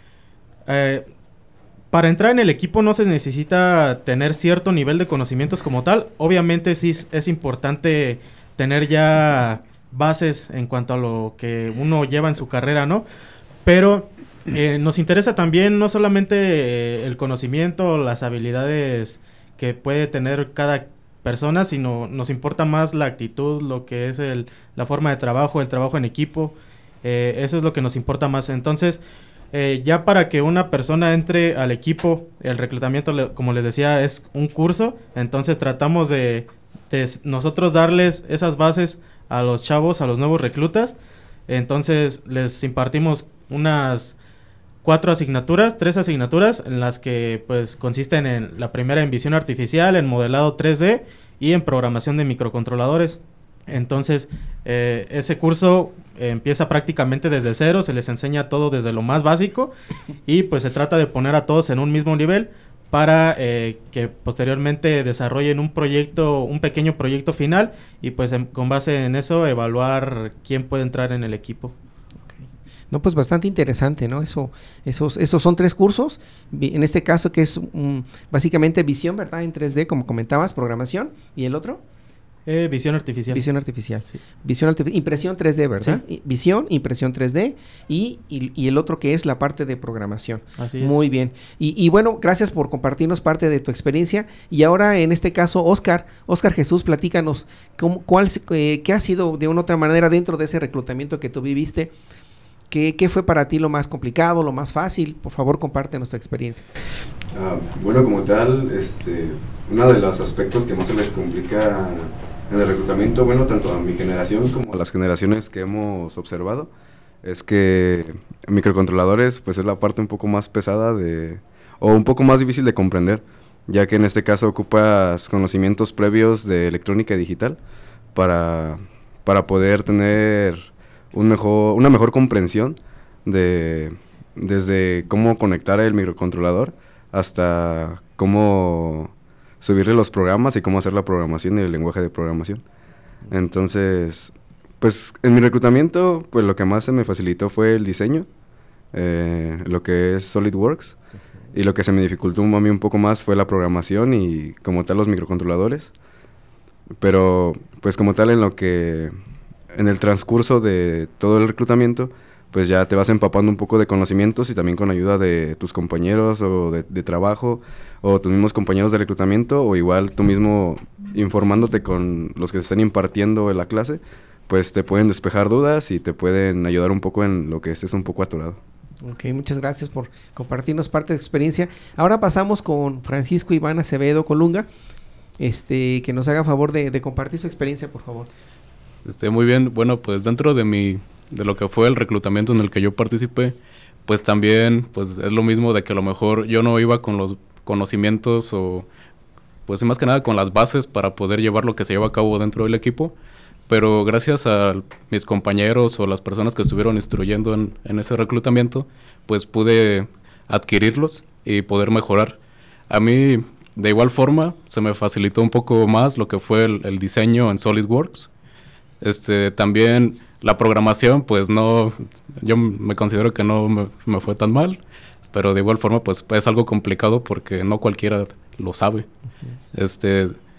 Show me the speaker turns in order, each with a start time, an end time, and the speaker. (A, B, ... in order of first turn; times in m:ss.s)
0:00.7-0:01.1 A
0:01.9-0:13.0 A
0:13.6-0:29.0 A
0:29.5-0:40.9 A
0:41.5-0:44.2 A
0:44.8-0:59.7 A
1:00.2-1:11.7 A
1:12.9-1:21.8 B
1:22.5-1:23.4 A
1:23.3-1:41.9 B
1:30.6-1:31.0 A
1:42.7-1:46.6 B
1:47.3-1:56.7 C
1:57.2-2:07.6 C
2:08.1-2:22.6 C
2:23.3-2:28.3 C
2:28.9-2:31.0 C
2:31.5-2:35.9 C
2:37.0-2:39.1 C
2:39.7-2:58.6 C
2:59.0-3:04.7 B
3:05.4-3:08.3 B
3:09.0-3:13.6 D
3:14.1-3:18.8 D
3:19.7-3:23.1 D
3:23.7-3:32.4 D
3:32.9-3:38.3 D
3:39.0-3:44.8 D
3:45.3-3:49.1 D
3:49.7-3:50.4 D